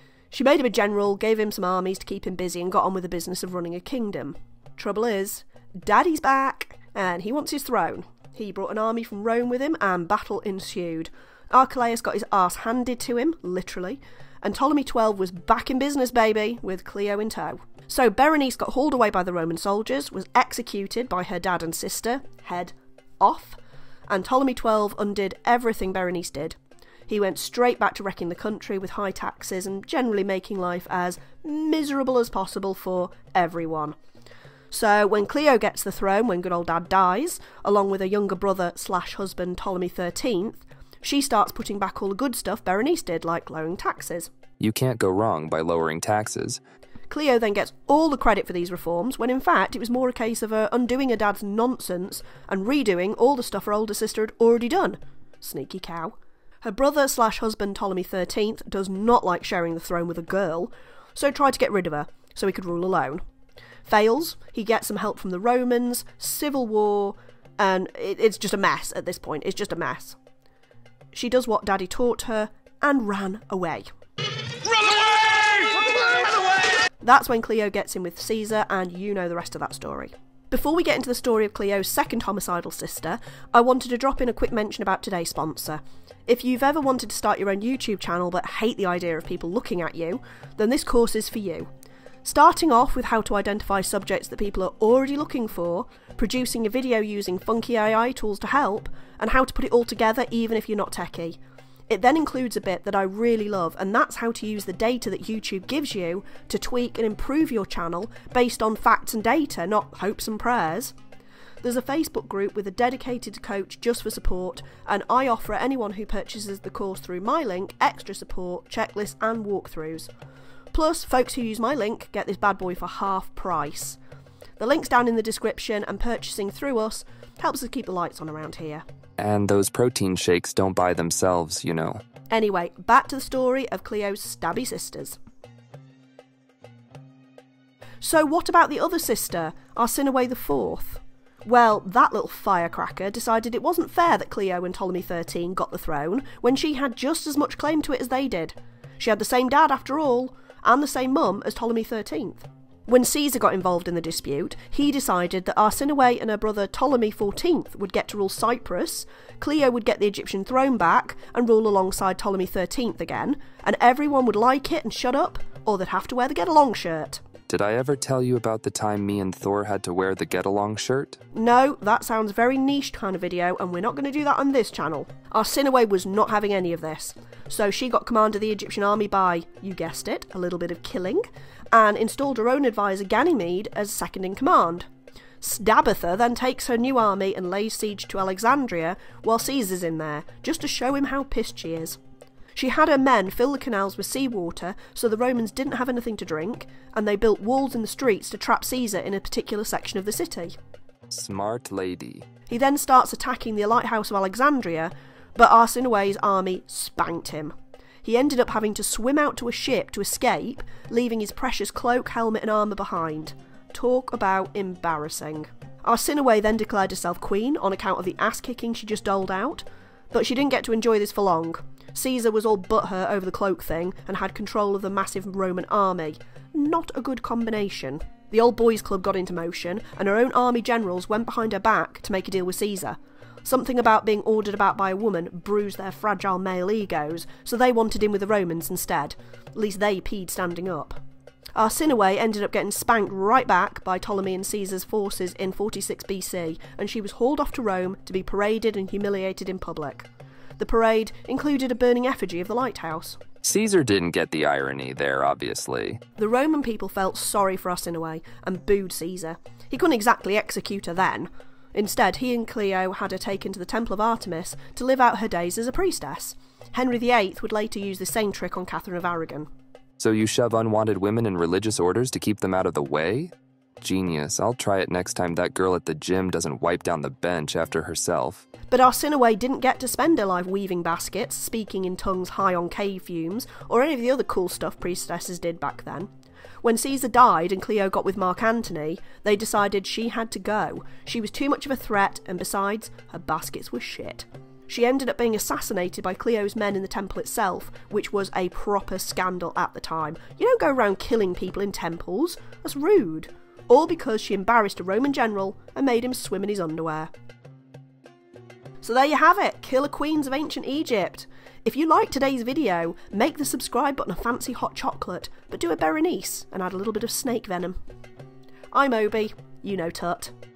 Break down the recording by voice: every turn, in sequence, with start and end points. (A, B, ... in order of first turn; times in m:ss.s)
0:00.3-0:26.6 A
0:27.1-0:34.0 A
0:34.7-0:44.3 A
0:44.6-0:46.6 B
0:47.1-1:03.2 A
1:03.8-1:10.2 A
1:11.1-1:13.9 A
1:17.0-1:31.7 A
1:32.2-1:41.4 A
1:41.9-1:50.9 A
1:51.6-2:00.1 A
2:00.7-2:04.0 A
2:04.6-2:08.8 A
2:09.2-2:12.0 B
2:12.3-2:15.2 A
2:18.0-2:47.2 A
2:47.5-2:51.2 B
2:51.3-3:04.9 A
3:05.4-3:12.0 A
3:12.5-3:20.5 A
3:21.1-3:22.2 B
3:22.5-4:01.0 A
4:01.5-4:10.1 A
4:10.6-4:13.2 A
4:13.4-4:16.0 B
4:16.2-4:29.5 A
4:30.0-4:38.4 B
4:38.7-4:46.1 A
4:46.6-5:07.1 A
5:08.8-5:17.8 A
5:18.7-5:20.3 A